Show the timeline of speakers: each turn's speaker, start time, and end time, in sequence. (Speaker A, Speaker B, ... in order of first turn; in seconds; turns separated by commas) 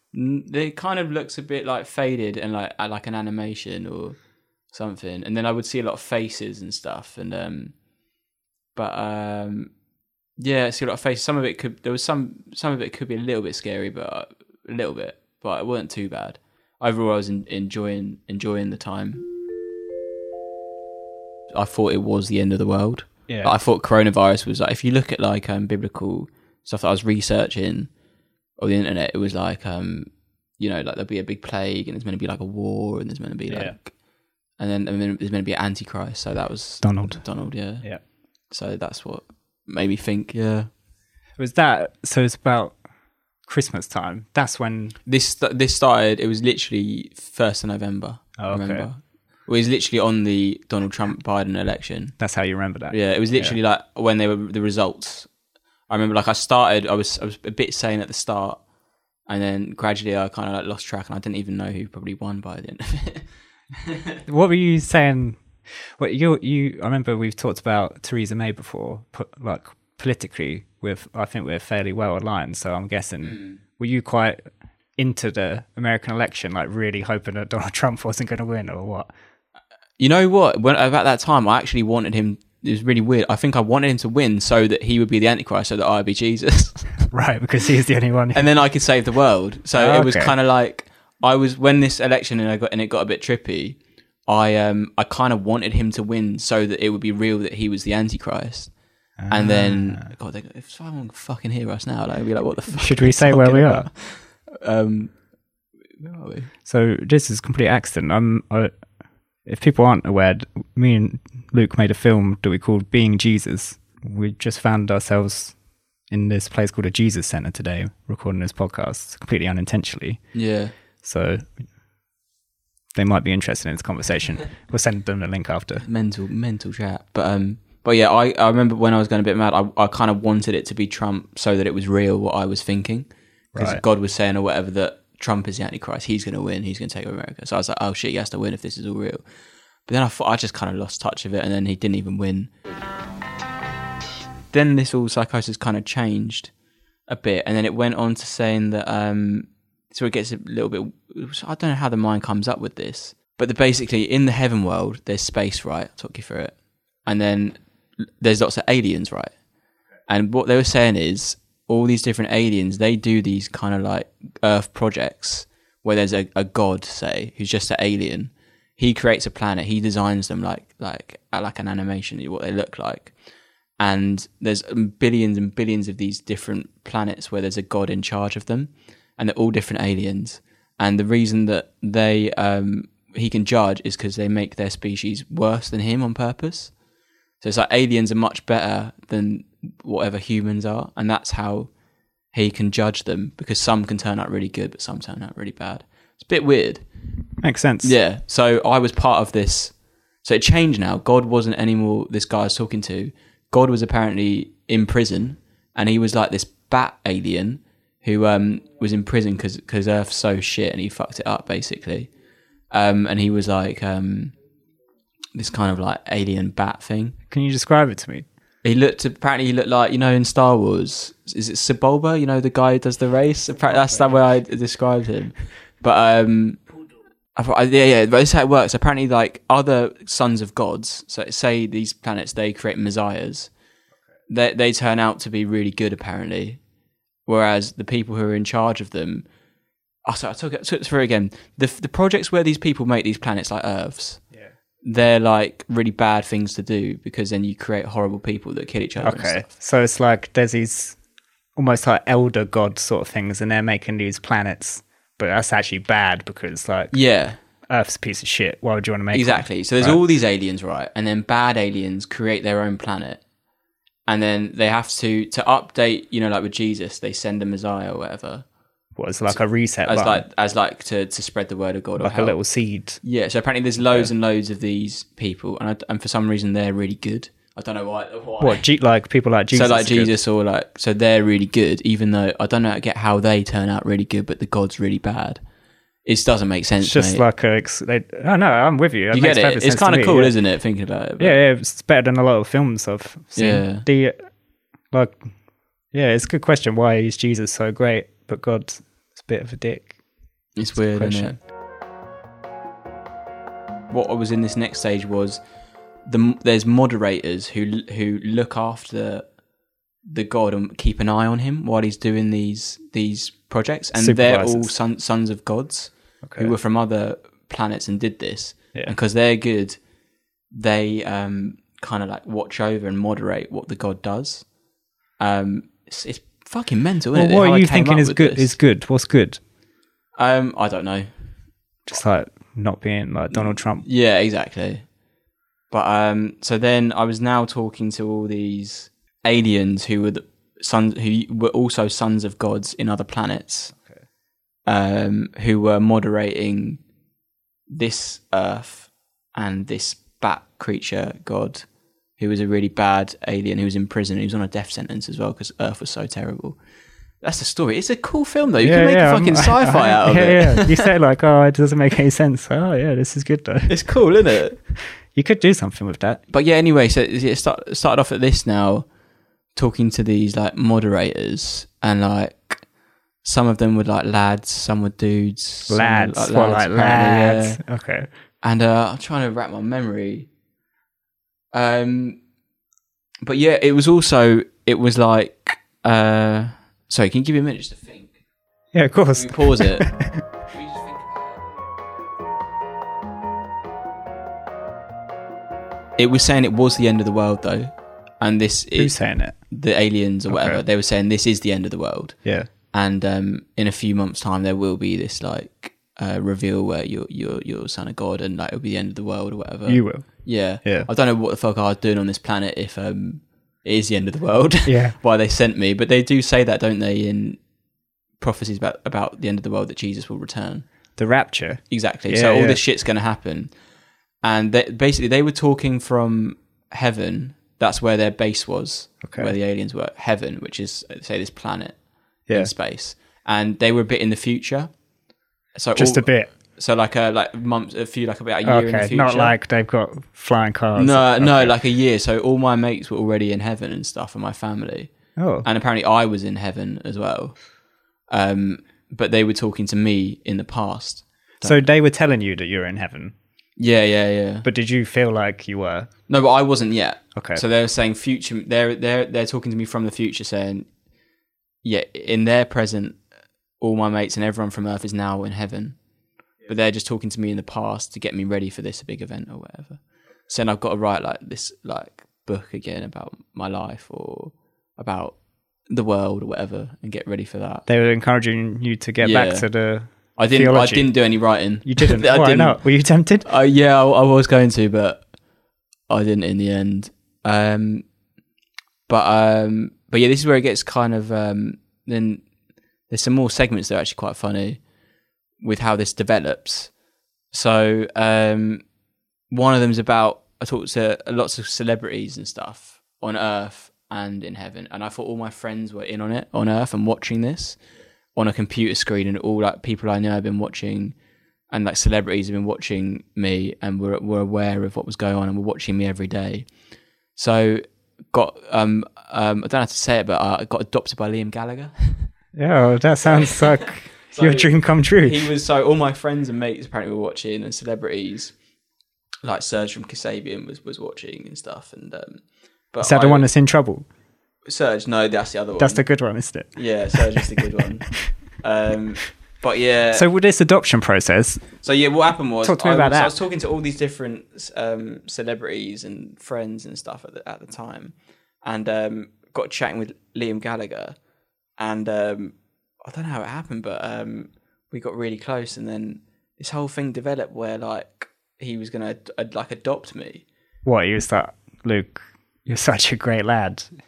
Speaker A: 0.1-4.2, Speaker A: 4.7-7.7, Speaker A: 8.7-9.7, Speaker A: 10.4-19.2, Speaker A: 21.5-27.9, Speaker B: 23.3-23.5, Speaker A: 28.6-33.9, Speaker B: 33.5-33.7, Speaker A: 34.6-37.9, Speaker B: 36.8-37.2, Speaker A: 38.5-40.7, Speaker B: 41.4-42.8, Speaker B: 43.5-45.0, Speaker A: 45.0-52.2, Speaker B: 48.4-48.9, Speaker B: 52.2-53.5, Speaker A: 52.9-55.3, Speaker A: 55.9-58.6, Speaker A: 59.3-63.2, Speaker A: 63.8-64.2, Speaker B: 64.2-65.4, Speaker B: 66.0-74.4, Speaker A: 73.2-73.5, Speaker B: 75.0-79.1, Speaker A: 80.0-87.1, Speaker B: 87.1-88.5, Speaker A: 88.3-98.7, Speaker B: 89.7-90.3, Speaker B: 99.2-100.0, Speaker A: 99.3-105.1, Speaker B: 102.7-103.9, Speaker A: 106.0-106.5, Speaker B: 106.7-108.8, Speaker B: 109.4-115.5, Speaker B: 116.1-120.2, Speaker A: 120.3-120.7, Speaker B: 121.0-121.5, Speaker B: 122.9-125.8, Speaker A: 125.8-139.2, Speaker B: 133.5-133.8, Speaker A: 139.9-142.5, Speaker A: 144.5-146.5, Speaker A: 147.1-156.5, Speaker A: 157.1-157.6, Speaker A: 158.2-159.3, Speaker A: 160.1-173.1, Speaker A: 173.8-186.7, Speaker A: 187.4-191.7, Speaker A: 192.3-196.8, Speaker B: 197.4-197.9, Speaker A: 197.8-212.1, Speaker A: 212.7-214.3, Speaker A: 215.3-217.2, Speaker B: 217.3-218.2, Speaker A: 218.6-226.6, Speaker B: 223.7-224.1, Speaker A: 227.3-233.5, Speaker A: 234.3-236.6, Speaker A: 237.3-239.2, Speaker A: 240.1-244.2, Speaker A: 244.8-249.5, Speaker B: 249.0-251.0, Speaker B: 251.6-256.9, Speaker A: 256.9-257.4, Speaker B: 257.7-260.0, Speaker A: 259.1-263.2, Speaker A: 264.1-268.4, Speaker B: 269.0-270.2, Speaker A: 269.3-272.4, Speaker B: 272.0-273.0, Speaker A: 273.0-278.6, Speaker B: 278.4-280.1, Speaker A: 279.5-285.4, Speaker A: 286.0-287.2, Speaker B: 286.8-290.3, Speaker A: 289.1-291.4, Speaker B: 291.2-294.3, Speaker A: 293.3-293.8, Speaker B: 294.9-295.2, Speaker B: 295.9-299.9, Speaker A: 300.6-301.4, Speaker B: 300.8-301.4, Speaker A: 303.9-305.4, Speaker A: 306.1-309.3, Speaker A: 310.1-319.8, Speaker B: 313.9-314.7, Speaker B: 316.2-316.5, Speaker A: 320.5-324.4, Speaker A: 325.2-328.5, Speaker B: 327.1-329.4, Speaker A: 330.2-331.1, Speaker B: 331.9-333.8, Speaker A: 333.3-334.8, Speaker A: 335.7-343.7, Speaker A: 344.6-346.8, Speaker A: 347.7-351.6, Speaker A: 352.2-356.6, Speaker A: 357.2-360.9, Speaker B: 358.6-363.8, Speaker A: 363.7-364.6, Speaker B: 364.8-366.2, Speaker A: 366.3-368.9, Speaker A: 369.5-372.6, Speaker A: 373.2-377.6, Speaker B: 375.7-378.1, Speaker A: 378.4-380.3, Speaker A: 381.5-382.2, Speaker A: 383.2-388.1, Speaker B: 388.7-390.2, Speaker A: 389.1-389.9, Speaker A: 390.5-391.4, Speaker A: 396.0-402.2, Speaker B: 398.8-399.4, Speaker B: 400.3-400.6, Speaker B: 402.2-402.5, Speaker A: 402.7-417.4, Speaker B: 409.7-410.9, Speaker B: 414.6-414.9, Speaker A: 418.2-420.6, Speaker B: 421.0-422.6, Speaker A: 421.7-423.5, Speaker A: 424.2-431.8, Speaker B: 429.0-429.3, Speaker A: 432.3-434.7, Speaker A: 435.5-439.4, Speaker B: 435.8-436.3, Speaker B: 438.4-441.5, Speaker A: 440.8-444.9, Speaker B: 445.2-445.5, Speaker A: 445.4-447.4, Speaker A: 448.1-451.6, Speaker B: 451.4-453.1, Speaker A: 453.6-454.4, Speaker B: 454.4-455.9, Speaker A: 456.1-460.7, Speaker B: 457.1-457.4, Speaker A: 461.6-463.0, Speaker A: 463.6-465.8, Speaker A: 466.4-475.1, Speaker A: 475.7-477.6, Speaker B: 477.7-481.0, Speaker A: 479.0-479.5, Speaker A: 480.1-482.6, Speaker B: 481.6-483.2, Speaker A: 483.2-485.0, Speaker A: 485.9-487.9, Speaker A: 488.9-492.2, Speaker A: 492.9-494.6, Speaker A: 495.4-496.7, Speaker A: 497.3-498.6, Speaker A: 499.3-507.6, Speaker A: 508.1-510.9, Speaker A: 511.5-516.5, Speaker A: 517.1-522.0, Speaker B: 522.3-525.3, Speaker A: 523.0-528.3, Speaker A: 529.2-532.2, Speaker A: 532.7-533.3, Speaker B: 532.8-533.9, Speaker A: 534.5-535.8, Speaker B: 535.6-537.4, Speaker A: 536.5-537.9, Speaker A: 538.4-540.0, Speaker B: 539.9-541.5, Speaker A: 541.6-551.0, Speaker B: 542.4-543.1, Speaker A: 551.6-560.2, Speaker B: 560.6-563.7